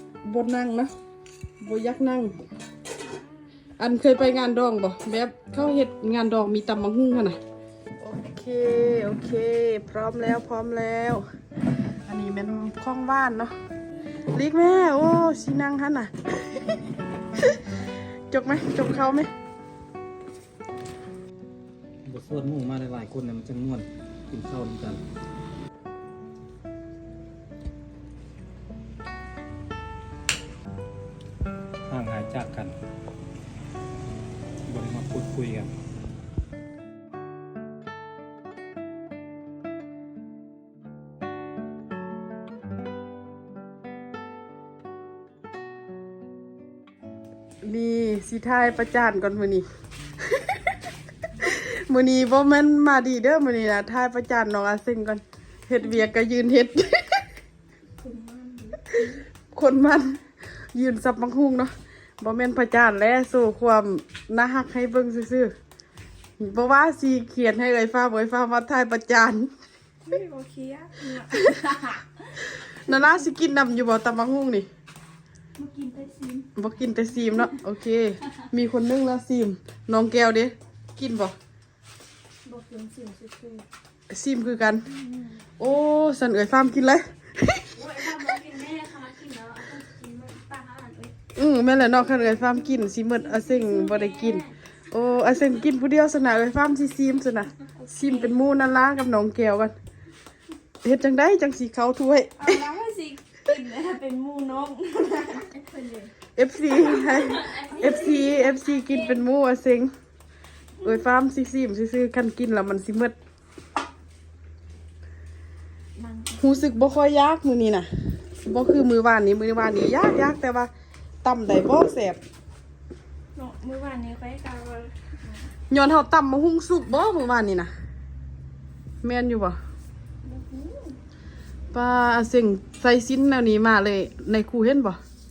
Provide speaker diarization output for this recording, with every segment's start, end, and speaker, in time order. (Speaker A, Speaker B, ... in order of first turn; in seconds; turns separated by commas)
Speaker A: 0.2-0.9, Speaker A: 1.6-2.3, Speaker A: 3.8-7.4, Speaker A: 8.0-11.2, Speaker A: 12.1-13.5, Speaker A: 14.3-16.8, Speaker A: 17.4-17.8, Speaker A: 18.3-19.3, Speaker B: 22.0-25.0, Speaker B: 31.9-32.7, Speaker B: 34.7-35.7, Speaker A: 47.6-49.6, Speaker A: 50.3-50.7, Speaker A: 51.4-57.2, Speaker C: 58.0-59.2, Speaker A: 59.0-60.2, Speaker A: 60.7-65.5, Speaker A: 66.4-69.5, Speaker C: 70.0-72.2, Speaker A: 72.4-74.7, Speaker C: 75.6-76.5, Speaker A: 76.5-81.3, Speaker C: 82.4-83.7, Speaker A: 84.1-84.9, Speaker C: 84.9-85.4, Speaker A: 85.6-88.2, Speaker C: 87.8-91.1, Speaker A: 91.3-99.7, Speaker C: 93.2-94.5, Speaker C: 97.8-98.3, Speaker A: 100.8-102.6, Speaker C: 102.4-106.1, Speaker A: 106.3-109.9, Speaker C: 106.8-109.2, Speaker A: 110.8-113.1, Speaker C: 116.0-116.6, Speaker A: 116.4-120.7, Speaker A: 121.2-122.2, Speaker C: 123.3-125.5, Speaker A: 125.7-127.7, Speaker A: 129.0-129.6, Speaker C: 130.2-131.0, Speaker A: 131.7-135.0